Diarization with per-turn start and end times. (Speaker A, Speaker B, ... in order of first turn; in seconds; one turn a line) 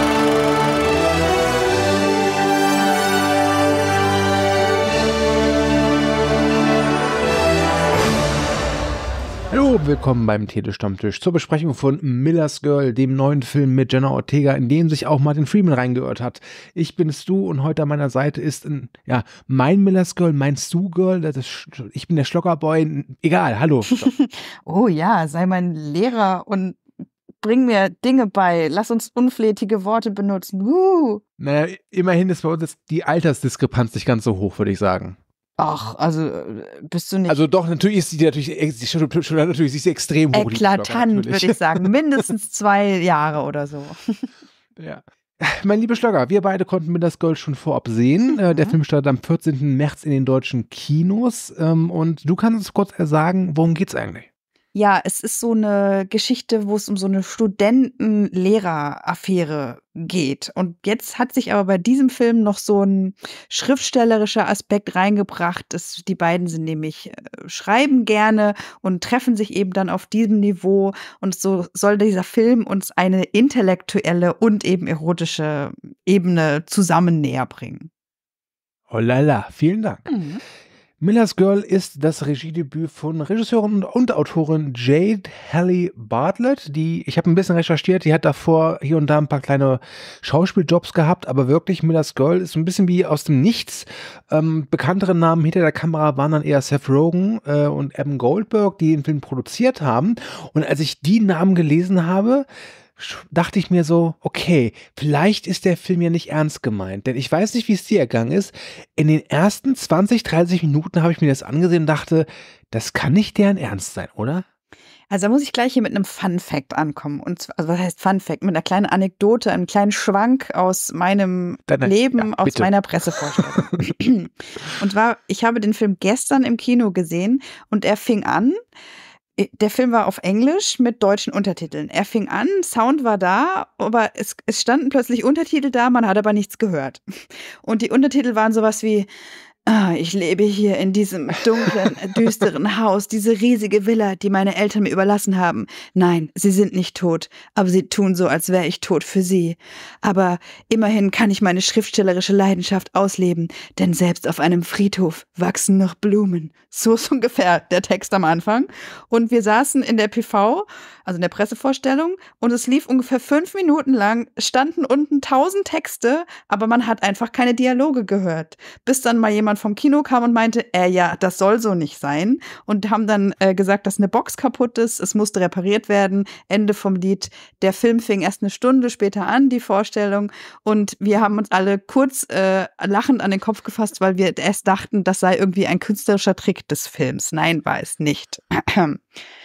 Speaker A: 9.5-24.1
Speaker B: 23.9-26.8
Speaker B: 27.4-31.2
Speaker A: 31.4-35.2
Speaker B: 35.6-37.4
Speaker A: 37.3-41.9
Speaker B: 40.3-44.3
Speaker A: 44.8-54.3
Speaker B: 48.3-48.8
Speaker B: 54.7-77.9
Speaker A: 78.9-80.1
Speaker B: 80.1-80.4
Speaker A: 81.0-102.5
Speaker A: 103.0-114.4
Speaker B: 115.1-128.6
Speaker A: 121.7-123.8
Speaker B: 129.3-137.0
Speaker B: 137.6-139.1
Speaker B: 139.7-189.0